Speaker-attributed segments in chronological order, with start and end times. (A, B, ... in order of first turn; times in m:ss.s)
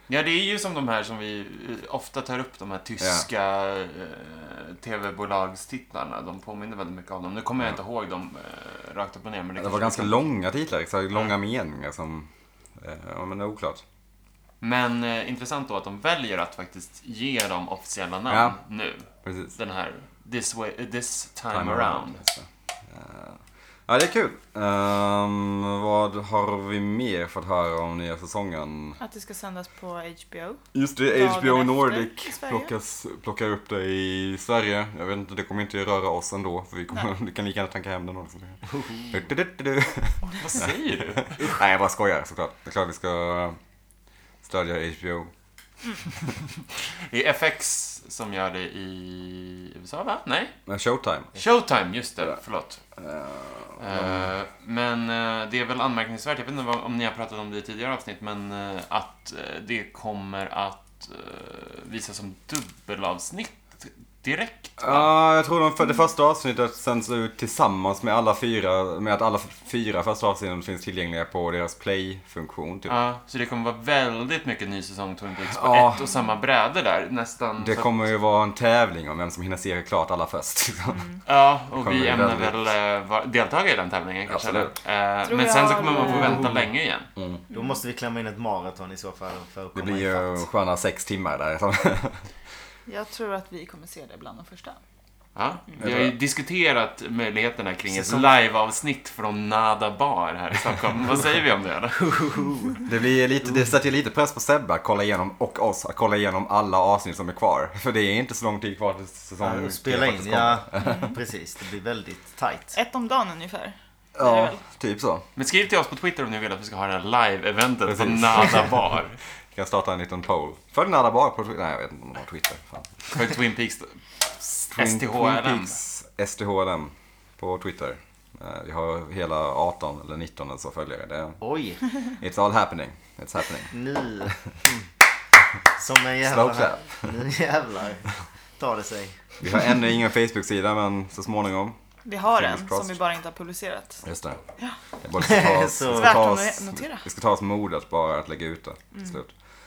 0:00.1-0:10.2 A
0:03.0-0:03.3 B
0:09.6-0:13.8 B
0:14.6-0:22.2 A
0:18.3-0:18.6 B
0:19.2-0:19.5 B
0:21.5-0:29.0 B
0:29.0-0:32.7 C
0:30.7-0:43.6 B
0:38.7-0:39.1 D
0:40.2-0:41.5 A
0:44.4-0:45.3 B
0:47.1-0:50.6 A
0:50.7-0:51.3 B
0:51.4-0:52.8 A
0:53.0-0:54.3 B
0:53.8-1:05.1 A
1:04.8-1:13.0 B
1:12.9-1:18.0 A
1:15.5-1:16.1 B
1:17.6-1:21.1 B
1:20.9-1:21.2 C
1:21.3-1:27.1 A
1:21.7-1:22.6 B
1:24.3-1:24.7 B
1:25.2-1:26.5 C
1:26.0-1:27.4 B
1:27.5-1:30.5 D
1:27.5-1:27.8 C
1:29.8-1:32.2 B
1:32.9-1:34.8 C
1:35.4-1:42.2 A
1:35.8-1:36.2 B
1:37.9-1:38.3 D
1:42.0-1:42.8 D
1:42.9-1:51.0 B
1:49.4-1:52.8 D
1:50.8-1:51.2 C
1:52.7-1:54.6 C
1:54.2-1:55.2 B
1:55.4-1:59.2 A
1:57.9-1:58.8 B
1:59.5-2:03.1 B
2:03.1-2:05.8 A
2:04.7-2:11.4 B
2:11.4-2:11.8 D
2:12.2-2:13.7 B
2:13.7-2:14.8 D
2:15.8-2:18.1 D
2:16.2-2:17.1 B
2:18.6-2:19.3 D
2:19.4-2:23.0 B
2:22.0-2:24.0 C
2:24.0-2:24.4 B
2:25.0-2:29.3 B
2:25.2-2:26.2 D
2:25.9-2:27.0 C